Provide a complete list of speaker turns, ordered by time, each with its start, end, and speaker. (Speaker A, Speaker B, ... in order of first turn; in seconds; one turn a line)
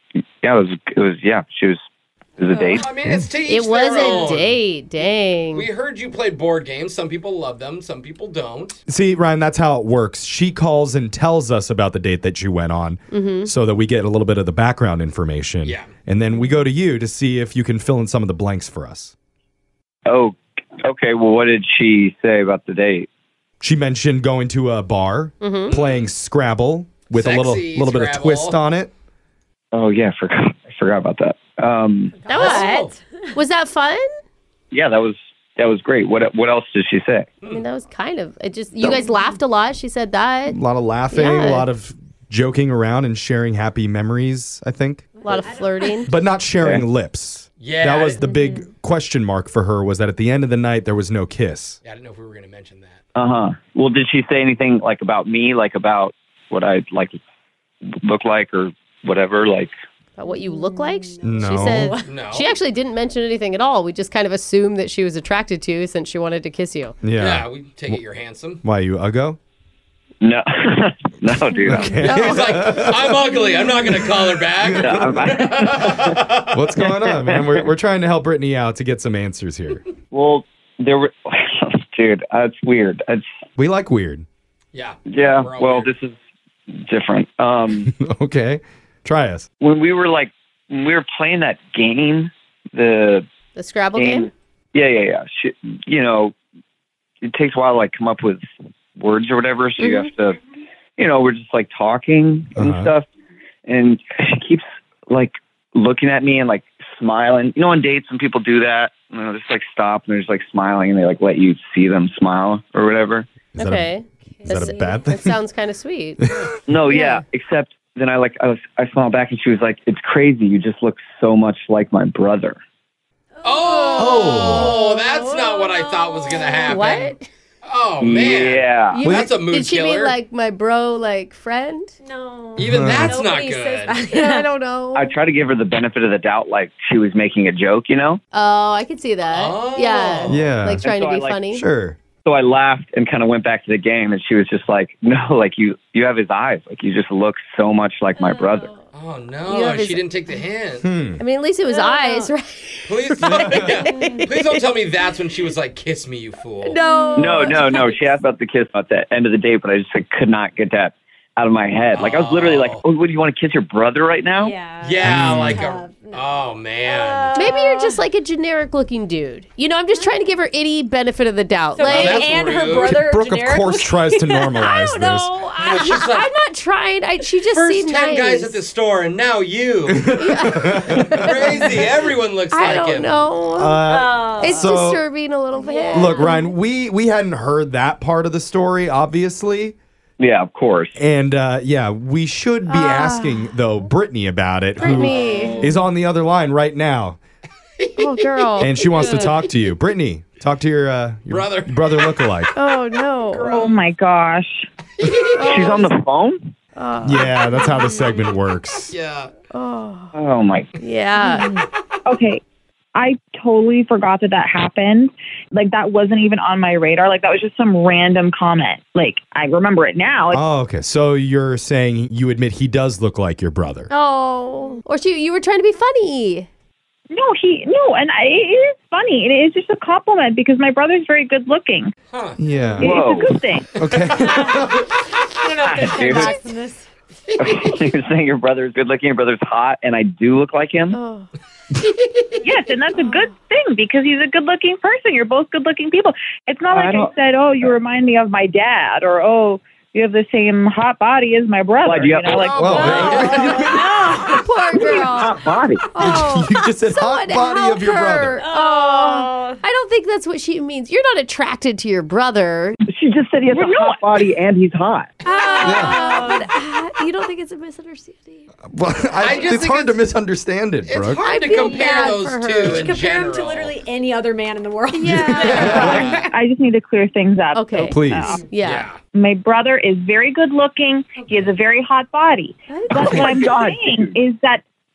Speaker A: 0.4-1.8
Speaker A: 2.4-2.9
Speaker B: 2.5-4.6
Speaker C: 3.5-5.7
Speaker B: 5.5-8.8
Speaker D: 8.9-19.1
Speaker C: 13.1-13.5
Speaker B: 15.6-15.9
Speaker A: 20.1-23.1
Speaker D: 23.6-28.9
Speaker C: 25.4-25.7
Speaker B: 25.7-26.1
Speaker B: 27.1-28.6
Speaker A: 29.7-32.2
Speaker E: 32.1-33.0
Speaker C: 32.3-34.0
Speaker B: 32.3-32.9
Speaker A: 34.7-37.3
Speaker C: 37.4-40.6
Speaker D: 40.5-45.1
Speaker C: 41.1-41.7
Speaker E: 45.2-46.0
Speaker C: 45.2-46.1
Speaker D: 46.0-51.8
Speaker A: 46.6-46.8
Speaker B: 47.6-48.2
Speaker E: 48.2-48.6
Speaker B: 51.8-53.0
Speaker A: 53.1-57.2
Speaker A: 58.0-59.7
Speaker C: 60.2-67.0
Speaker E: 60.3-60.8
Speaker D: 61.2-62.0
Speaker E: 61.7-62.1
Speaker B: 62.1-62.5
Speaker D: 67.0-68.0
Speaker B: 67.2-68.6
Speaker D: 68.6-69.4
Speaker A: 70.2-72.0
Speaker D: 71.7-75.1
Speaker C: 72.0-72.8
Speaker B: 72.0-76.6
Speaker A: 74.8-76.2
Speaker D: 76.5-79.8
Speaker A: 76.8-77.7
Speaker A: 80.1-83.4
Speaker D: 83.6-84.2
Speaker B: 84.7-85.9
Speaker A: 85.1-86.1
Speaker A: 86.7-87.9
Speaker D: 87.9-89.5
Speaker A: 89.6-93.3
Speaker C: 93.5-94.3
Speaker A: 93.9-96.3
Speaker A: 97.2-98.4
Speaker A: 99.0-100.4
Speaker C: 99.8-100.1
Speaker A: 101.0-103.1
Speaker D: 102.6-102.9
Speaker A: 103.7-113.2
Speaker D: 113.5-115.3
Speaker C: 113.6-116.2
Speaker E: 114.4-115.0
Speaker A: 116.7-122.6
Speaker C: 116.9-117.2
Speaker E: 123.4-124.2
Speaker B: 123.4-127.1
Speaker C: 123.9-125.2
Speaker D: 124.0-124.8
Speaker E: 124.8-126.8
Speaker C: 126.6-127.3
Speaker B: 127.6-130.1
Speaker A: 128.0-129.0
Speaker C: 128.9-131.9
Speaker D: 129.0-129.3
Speaker E: 132.0-134.5
Speaker D: 132.6-133.2
Speaker B: 132.6-134.0
Speaker C: 133.2-135.1
Speaker A: 134.9-138.2
Speaker C: 138.3-141.6
Speaker B: 139.3-140.3
Speaker D: 140.3-140.8
Speaker A: 140.8-141.4
Speaker D: 141.5-141.9
Speaker A: 142.2-148.7
Speaker B: 148.9-150.9
Speaker C: 149.4-150.0
Speaker D: 150.8-151.2
Speaker C: 151.2-154.6
Speaker E: 151.7-152.3
Speaker B: 152.8-156.8
Speaker D: 153.3-153.6
Speaker E: 153.9-154.3
Speaker C: 156.6-157.9
Speaker E: 156.7-157.9
Speaker A: 157.1-164.6
Speaker B: 161.9-162.8
Speaker E: 164.4-168.0
Speaker B: 164.8-167.3
Speaker D: 165.0-165.7
Speaker C: 167.3-172.3
Speaker E: 171.7-174.7
Speaker B: 171.8-173.0
Speaker D: 172.8-175.3
Speaker C: 174.6-178.6
Speaker B: 175.6-176.3
Speaker B: 177.5-180.2
Speaker D: 179.9-181.5
Speaker C: 180.2-181.7
Speaker B: 181.0-183.2
Speaker C: 182.5-183.9
Speaker D: 183.5-185.0
Speaker E: 183.8-184.8
Speaker C: 184.4-186.5
Speaker E: 185.6-186.5
Speaker D: 185.9-189.8
Speaker A: 190.2-191.0
Speaker D: 190.9-197.2
Speaker C: 192.7-193.5
Speaker B: 194.8-195.8
Speaker C: 194.8-195.7
Speaker B: 197.8-199.5
Speaker C: 198.0-199.1
Speaker D: 198.6-202.5
Speaker B: 201.3-202.3
Speaker C: 202.5-203.5
Speaker B: 203.3-203.8
Speaker F: 203.5-204.7
Speaker B: 205.0-205.4
Speaker C: 205.4-205.9
Speaker A: 205.4-206.5
Speaker C: 206.8-207.4
Speaker D: 207.0-208.9
Speaker E: 207.8-208.1
Speaker B: 208.9-209.3
Speaker C: 209.5-210.1
Speaker A: 210.1-210.7
Speaker C: 210.8-211.5
Speaker E: 211.2-211.6
Speaker F: 212.1-212.4
Speaker F: 212.9-220.4
Speaker D: 220.3-223.9
Speaker C: 223.9-226.5
Speaker F: 227.1-231.9
Speaker B: 232.1-232.4
Speaker D: 232.4-234.9
Speaker A: 232.8-233.3
Speaker F: 232.8-233.7
Speaker E: 234.2-234.6
Speaker E: 235.3-236.9
Speaker A: 235.6-236.4
Speaker C: 236.0-236.4
Speaker B: 237.4-237.6
Speaker A: 237.4-241.0
Speaker C: 240.9-241.3
Speaker B: 241.8-242.2
Speaker F: 242.4-253.6
Speaker A: 246.7-247.1
Speaker A: 251.8-252.7
Speaker B: 252.3-253.7
Speaker D: 252.5-254.1
Speaker E: 252.8-254.5
Speaker C: 254.3-255.4
Speaker A: 254.7-255.9
Speaker C: 255.9-262.8
Speaker D: 256.0-258.4
Speaker E: 258.4-259.6
Speaker A: 262.9-265.1
Speaker F: 263.6-264.0
Speaker C: 265.2-268.5
Speaker B: 265.3-265.6
Speaker E: 265.5-266.5
Speaker D: 265.6-266.0
Speaker D: 268.7-271.2
Speaker B: 269.2-270.0
Speaker B: 270.9-273.8
Speaker C: 271.2-272.8
Speaker E: 271.6-272.0
Speaker E: 272.7-276.0
Speaker C: 274.9-275.9
Speaker D: 275.0-276.1
Speaker B: 275.4-276.3
Speaker F: 275.6-278.4
Speaker C: 277.5-278.9
Speaker D: 277.9-278.4
Speaker B: 278.6-279.0
Speaker F: 279.1-284.6
Speaker B: 281.2-281.5
Speaker C: 282.7-283.2
Speaker A: 282.9-284.1